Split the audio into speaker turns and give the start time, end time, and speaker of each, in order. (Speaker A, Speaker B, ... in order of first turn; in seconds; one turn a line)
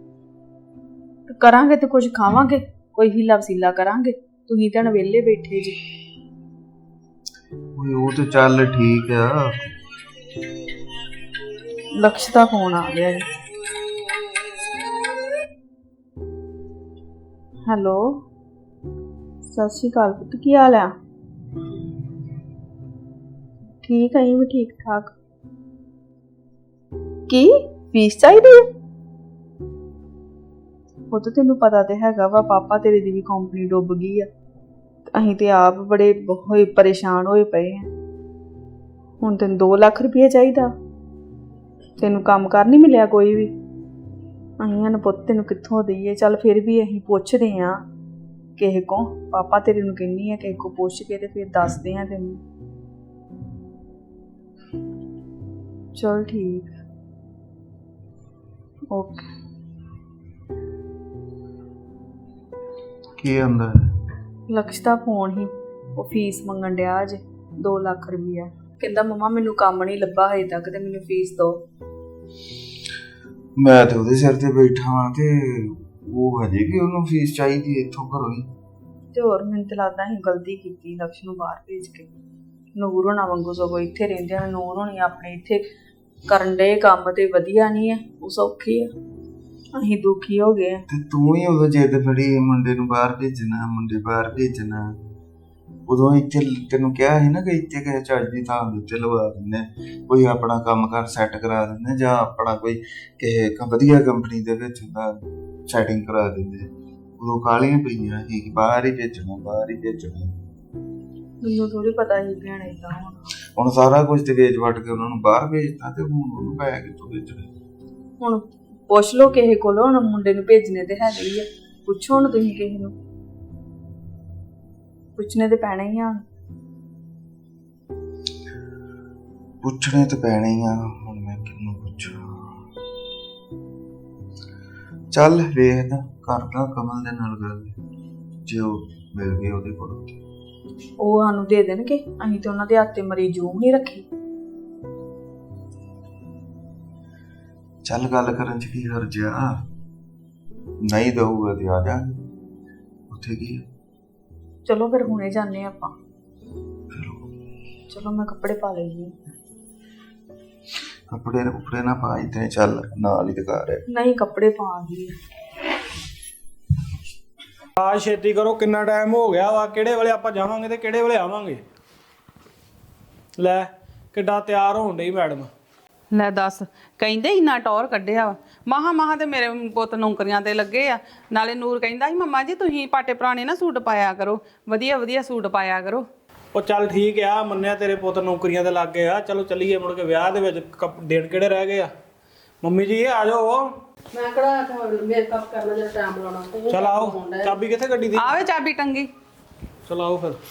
Speaker A: 1.3-5.8
Speaker B: 7.7-9.5
Speaker A: 11.9-13.2
Speaker A: 17.6-18.2
Speaker A: 19.4-20.9
Speaker A: 23.8-25.1
Speaker A: 27.3-28.7
Speaker A: 31.1-34.3
Speaker A: 35.1-37.9
Speaker A: 39.2-40.7
Speaker A: 42.0-43.5
Speaker A: 44.6-47.8
Speaker A: 48.6-52.4
Speaker A: 55.9-56.7
Speaker A: 58.9-59.3
Speaker B: 63.2-63.9
Speaker A: 64.5-71.6
Speaker B: 73.5-78.5
Speaker A: 79.1-82.1
Speaker A: 82.7-85.6
Speaker A: 86.3-88.9
Speaker A: 89.7-90.8
Speaker B: 90.9-95.0
Speaker B: 95.9-110.3
Speaker A: 111.4-113.2
Speaker B: 113.5-117.5
Speaker A: 118.2-122.9
Speaker A: 125.2-126.2
Speaker B: 129.6-132.6
Speaker B: 135.1-137.8
Speaker B: 138.4-140.2
Speaker A: 141.0-144.1
Speaker B: 147.8-149.5
Speaker B: 150.8-152.2
Speaker B: 153.1-153.6
Speaker A: 154.6-155.9
Speaker B: 156.9-157.3
Speaker A: 157.9-159.1
Speaker B: 161.1-163.8
Speaker A: 163.9-165.1
Speaker C: 167.8-171.6
Speaker C: 173.4-175.5
Speaker D: 176.1-186.1
Speaker C: 186.5-191.9
Speaker C: 192.6-193.7
Speaker E: 194.1-197.6
Speaker C: 196.7-198.4
Speaker D: 198.1-199.1
Speaker C: 199.9-200.4